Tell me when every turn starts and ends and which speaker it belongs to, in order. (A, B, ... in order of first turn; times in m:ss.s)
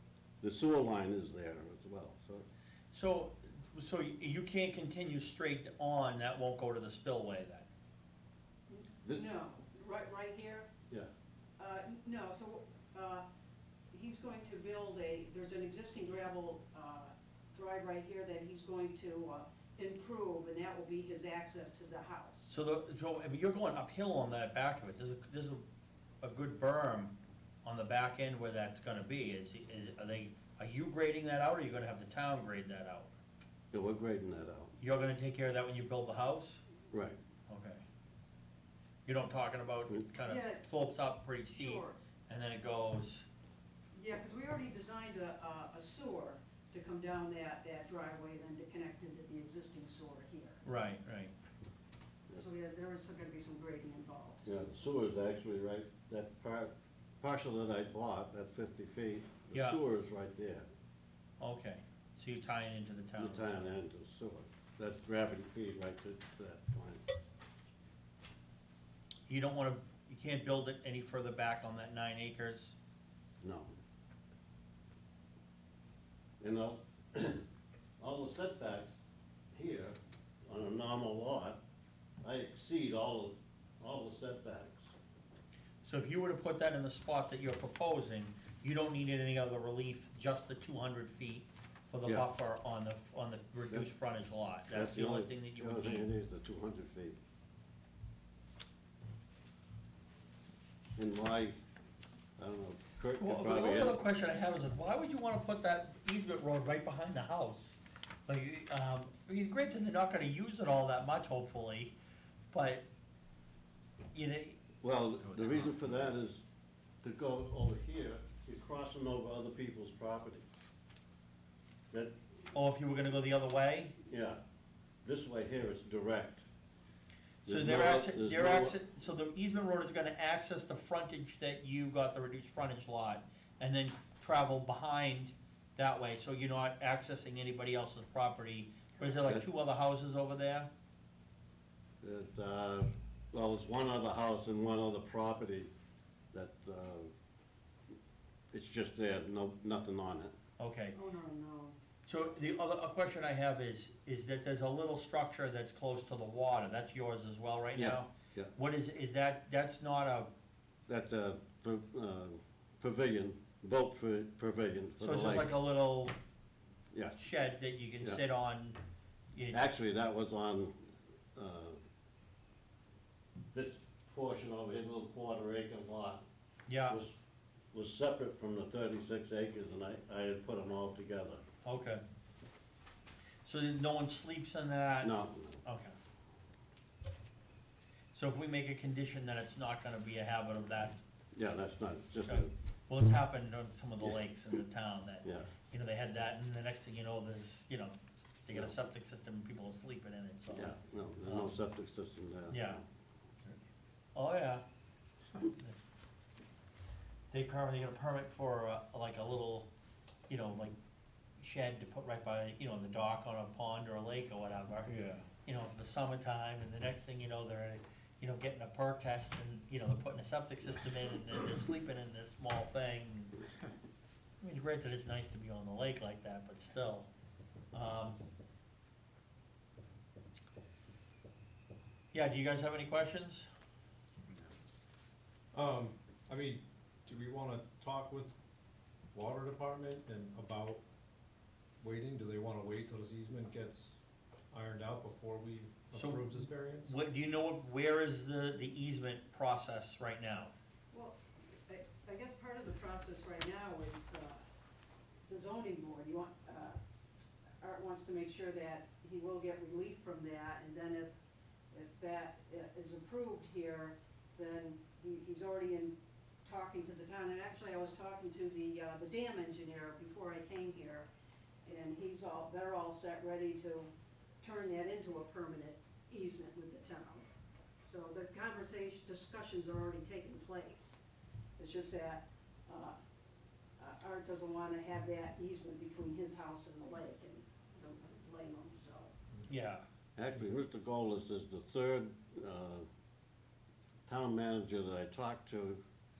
0:00.4-0:02.4 A
0:02.9-0:07.7 B
0:08.7-0:10.7 C
0:11.6-0:13.2 C
0:13.9-0:22.5 C
0:22.5-0:25.6 B
0:26.2-0:33.1 B
0:33.7-0:34.7 A
0:34.8-0:36.6 B
0:36.9-0:37.2 A
0:37.5-0:37.8 B
0:39.0-0:43.2 B
0:40.2-0:40.7 C
0:41.5-0:42.0 C
0:43.9-0:50.6 C
0:50.6-0:51.3 B
0:52.3-0:54.4 C
0:54.4-1:00.6 A
0:59.5-0:59.8 B
1:01.4-1:03.6 B
1:03.2-1:07.0 A
1:09.3-1:12.8 B
1:13.4-1:13.7 A
1:16.4-1:17.4 A
1:18.0-1:19.0 A
1:19.5-1:21.6 A
1:22.2-1:24.9 A
1:25.8-1:36.1 B
1:34.7-1:37.2 A
1:41.0-1:41.6 A
1:42.4-1:44.0 A
1:43.2-1:51.9 B
1:52.5-1:52.8 B
1:54.1-1:54.6 B
1:54.8-1:56.4 A
1:57.0-2:00.5 A
2:02.5-2:03.9 B
2:04.0-2:04.4 A
2:05.0-2:06.4 A
2:07.4-2:20.7 B
2:07.4-2:08.8 A
2:22.0-2:25.7 A
2:26.3-2:27.1 A
2:28.5-2:30.3 A
2:30.6-2:31.0 B
2:30.9-2:31.8 C
2:32.0-2:40.3 B
2:37.7-2:38.5 A
2:40.9-2:45.5 A
2:45.0-2:46.1 B
2:46.9-2:47.2 A
2:47.2-2:48.8 B
2:49.3-2:49.6 B
2:49.5-2:51.8 A
2:53.5-2:56.2 A
2:56.7-2:57.0 B
2:56.9-2:57.1 A
2:57.7-3:01.4 A
3:01.6-3:02.0 B
3:03.4-3:05.1 B
3:05.0-3:05.6 A
3:05.6-3:06.0 B
3:08.1-3:11.0 B
3:11.3-3:12.5 A
3:12.3-3:17.9 B
3:15.2-3:15.5 A
3:18.4-3:20.7 B
3:20.5-3:22.8 A
3:21.2-3:21.5 B
3:22.5-3:22.8 B
3:24.1-3:24.6 B
3:25.5-3:25.8 B
3:27.3-3:29.7 B
3:30.3-3:30.7 B
3:31.4-3:34.9 B
3:34.9-3:35.3 D
3:35.4-3:43.4 B
3:44.4-3:47.1 B
3:47.7-3:48.2 B
3:52.1-3:53.5 B
3:55.5-3:58.3 D
3:59.1-4:00.8 D
4:01.8-4:04.0 D
4:04.5-4:07.0 D
4:05.9-4:10.5 B
4:10.9-4:14.4 C
4:15.3-4:16.8 C
4:17.6-4:21.1 C
4:21.7-4:31.1 C
4:31.6-4:33.9 C
4:34.4-4:37.2 C
4:37.8-4:41.0 C
4:41.6-4:42.9 C
4:43.8-4:49.1 C
4:49.5-4:49.8 B
4:50.2-4:52.8 A
4:54.1-4:55.8 A